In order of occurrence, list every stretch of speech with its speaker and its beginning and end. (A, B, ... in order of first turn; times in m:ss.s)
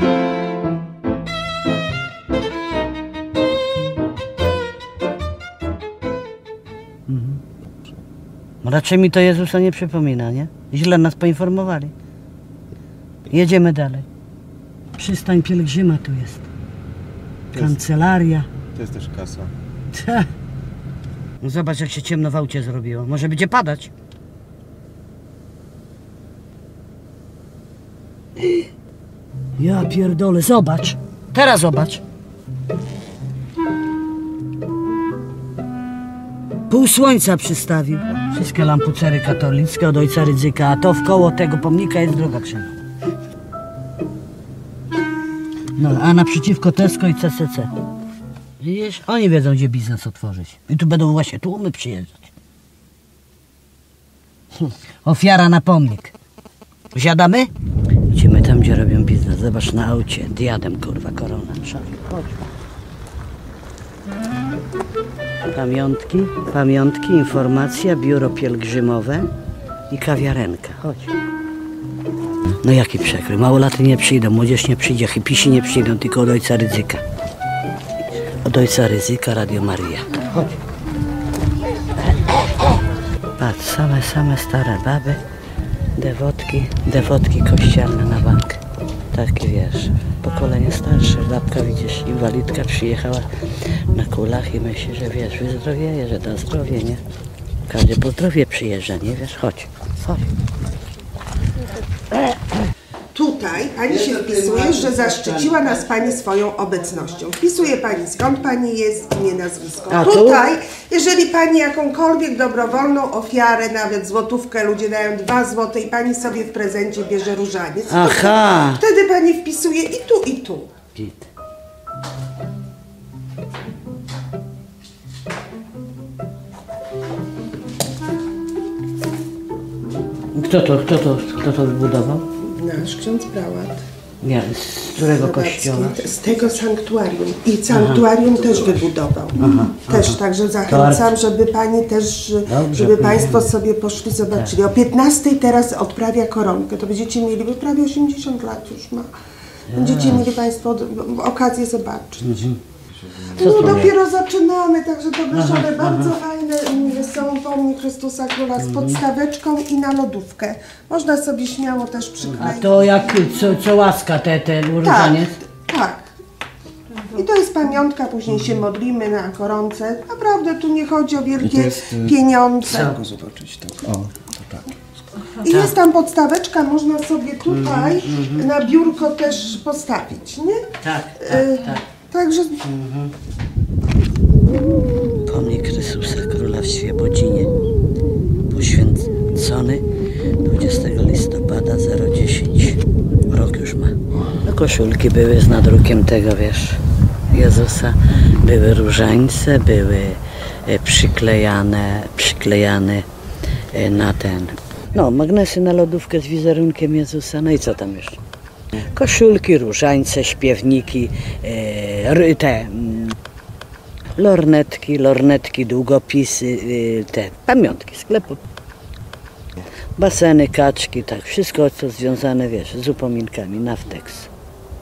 0:07.1-0:07.4 A
0:08.6-0:11.9 A
0:13.3-0:14.0 A
0:15.0-0:16.5 A
0:17.5-0:18.5 A
0:18.7-0:19.5 B
0:19.9-0:20.3 A
0:21.4-0:23.9 A
0:28.4-0:28.7 A
0:29.6-0:32.0 A
0:36.7-0:42.8 A
0:45.8-0:47.7 A
0:48.6-0:52.2 A
0:54.6-0:56.1 A
0:56.9-0:57.5 A
0:58.1-1:02.4 A
1:05.5-1:09.3 A
1:09.9-1:11.1 A
1:12.6-1:17.0 A
1:18.4-1:20.6 A
1:23.4-1:25.2 A
1:26.0-1:28.6 A
1:29.1-1:37.0 A
1:37.7-1:40.3 A
1:43.1-2:00.7 C
1:49.9-1:50.5 A
1:57.9-1:58.8 A
2:00.9-2:01.3 A
2:10.3-2:12.2 A
2:12.4-2:13.8 C
2:14.2-2:16.0 A
2:14.9-2:29.1 C
2:17.7-2:18.0 A
2:19.4-2:21.1 A
2:22.4-2:23.5 A
2:29.7-2:30.3 A
2:29.7-2:32.4 C
2:32.2-2:32.6 A
2:33.3-2:43.3 C
2:33.3-2:33.9 A
2:35.3-2:36.2 A
2:38.6-2:39.0 A
2:42.2-2:45.4 A
2:44.8-2:46.0 C
2:47.1-2:53.0 C
2:51.4-2:52.2 B
2:52.6-2:53.0 A
2:53.0-2:54.7 B
2:55.4-3:00.6 C
2:55.4-2:55.7 A
2:57.5-2:58.5 A
3:00.8-3:01.8 A
3:01.2-3:02.6 C
3:02.6-3:03.1 A
3:05.2-3:07.5 A
3:08.5-3:09.8 A
3:10.4-3:23.0 A
3:23.7-3:28.2 A
3:28.8-3:33.1 A
3:34.2-3:38.4 A
3:40.0-3:44.3 A